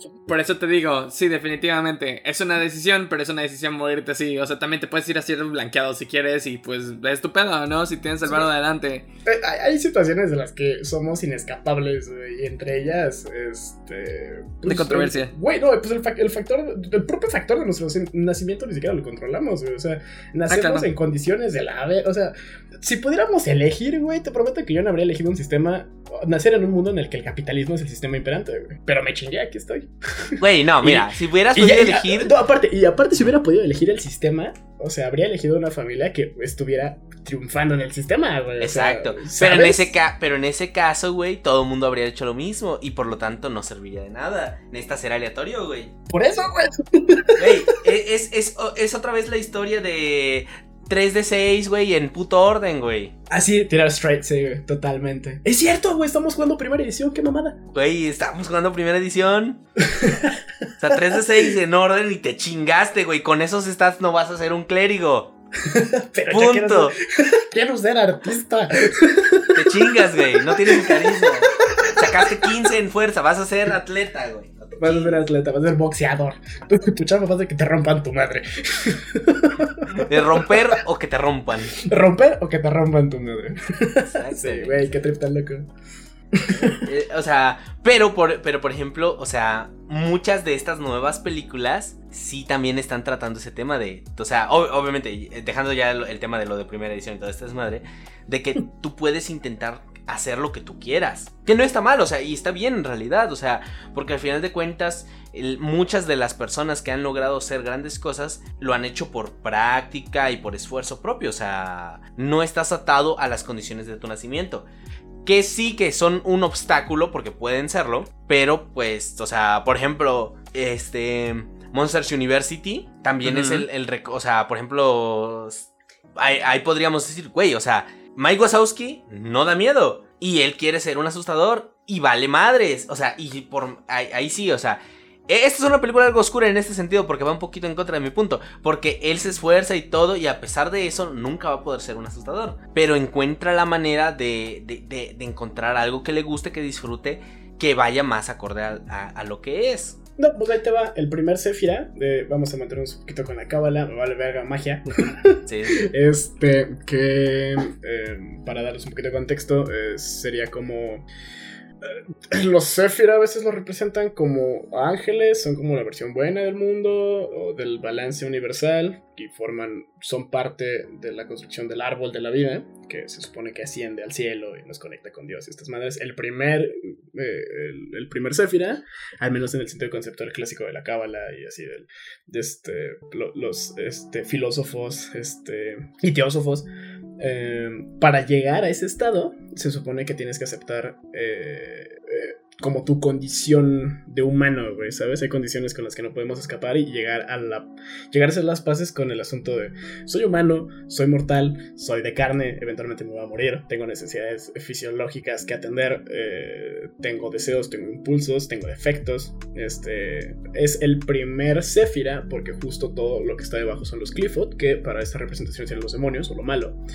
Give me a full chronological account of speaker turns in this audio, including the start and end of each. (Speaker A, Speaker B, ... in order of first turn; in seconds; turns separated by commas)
Speaker A: 0.3-9.1, Speaker B: 9.2-39.9, Speaker A: 14.6-15.3, Speaker A: 20.5-20.9, Speaker C: 30.4-32.3, Speaker C: 38.6-45.9, Speaker B: 46.1-47.5, Speaker C: 47.4-53.1, Speaker B: 53.3-57.6, Speaker C: 57.7-59.6, Speaker B: 59.9-60.4, Speaker C: 60.8-65.3, Speaker B: 65.7-72.5, Speaker C: 66.3-66.9, Speaker C: 69.5-75.1, Speaker B: 74.8-80.7, Speaker C: 80.0-81.7, Speaker B: 81.8-85.7, Speaker C: 84.0-85.0, Speaker B: 86.3-86.8, Speaker C: 86.7-114.7, Speaker C: 115.2-150.0, Speaker A: 123.2-123.7, Speaker B: 150.2-161.1, Speaker C: 155.4-155.8, Speaker B: 161.8-186.7, Speaker B: 187.2-216.8